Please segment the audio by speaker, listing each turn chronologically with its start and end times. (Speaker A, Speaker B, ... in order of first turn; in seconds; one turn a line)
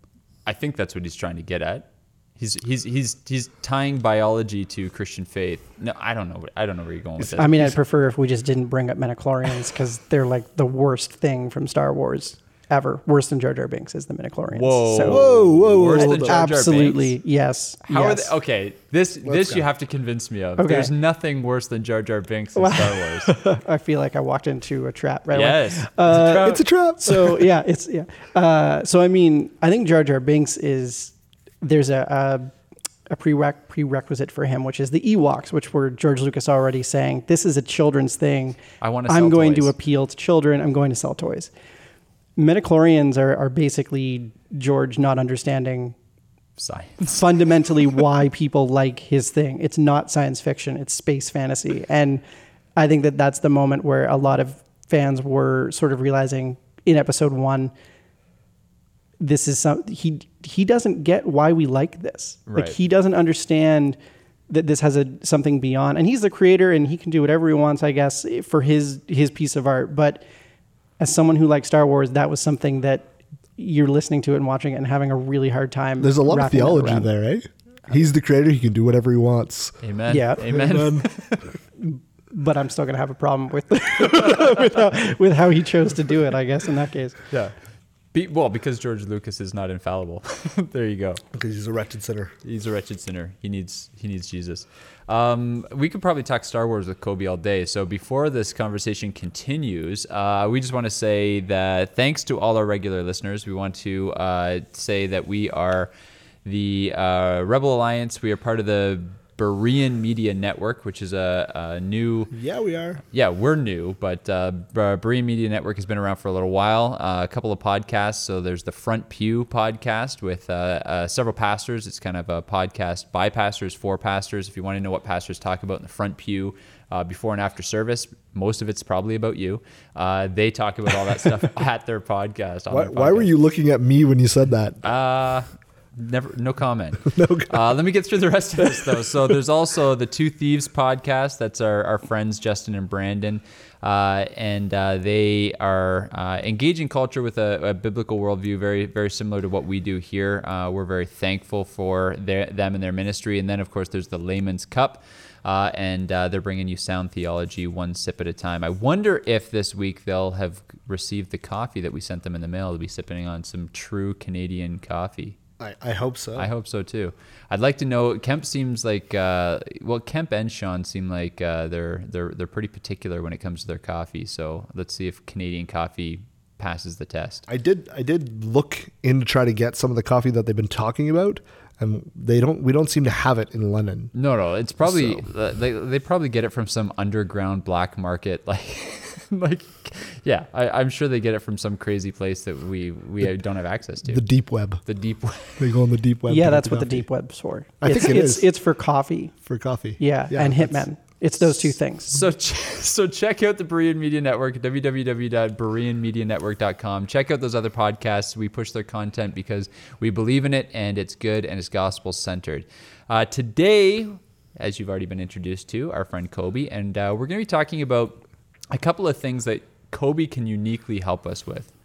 Speaker A: 0.5-7.6
Speaker B: 7.2-7.8
Speaker C: 7.4-15.2
Speaker A: 14.5-17.1
Speaker B: 15.1-16.4
Speaker C: 15.9-18.3
Speaker A: 17.9-23.3
Speaker B: 19.2-19.6
Speaker C: 20.6-20.9
Speaker C: 22.6-32.5
Speaker A: 25.3-26.6
Speaker B: 26.4-27.4
Speaker C: 33.1-41.5
Speaker A: 38.8-39.7
Speaker C: 42.4-46.0
Speaker A: 46.6-47.3
Speaker C: 47.1-52.2
Speaker C: 52.8-57.7
Speaker C: 59.2-64.0
Speaker A: 62.5-62.8
Speaker C: 64.5-70.2
Speaker C: 71.0-77.1
Speaker B: 76.0-79.8
Speaker A: 79.8-81.4
Speaker C: 80.1-80.7
Speaker B: 80.4-81.1
Speaker C: 81.8-87.2
Speaker A: 87.3-87.5
Speaker A: 88.1-91.2
Speaker B: 91.3-92.3
Speaker A: 92.4-105.9
Speaker A: 106.4-112.3
Speaker B: 112.3-113.0
Speaker A: 113.1-133.3
Speaker B: 132.7-134.8
Speaker A: 134.8-165.4
Speaker B: 137.1-137.5
Speaker B: 165.6-166.5
Speaker A: 166.3-177.4
Speaker B: 177.5-184.1
Speaker A: 184.1-194.3
Speaker B: 184.8-185.2
Speaker B: 194.1-194.8
Speaker A: 194.8-195.7
Speaker B: 195.6-197.1
Speaker C: 196.3-199.3
Speaker B: 197.8-198.5
Speaker B: 199.4-200.8
Speaker C: 200.0-202.2
Speaker A: 202.1-221.7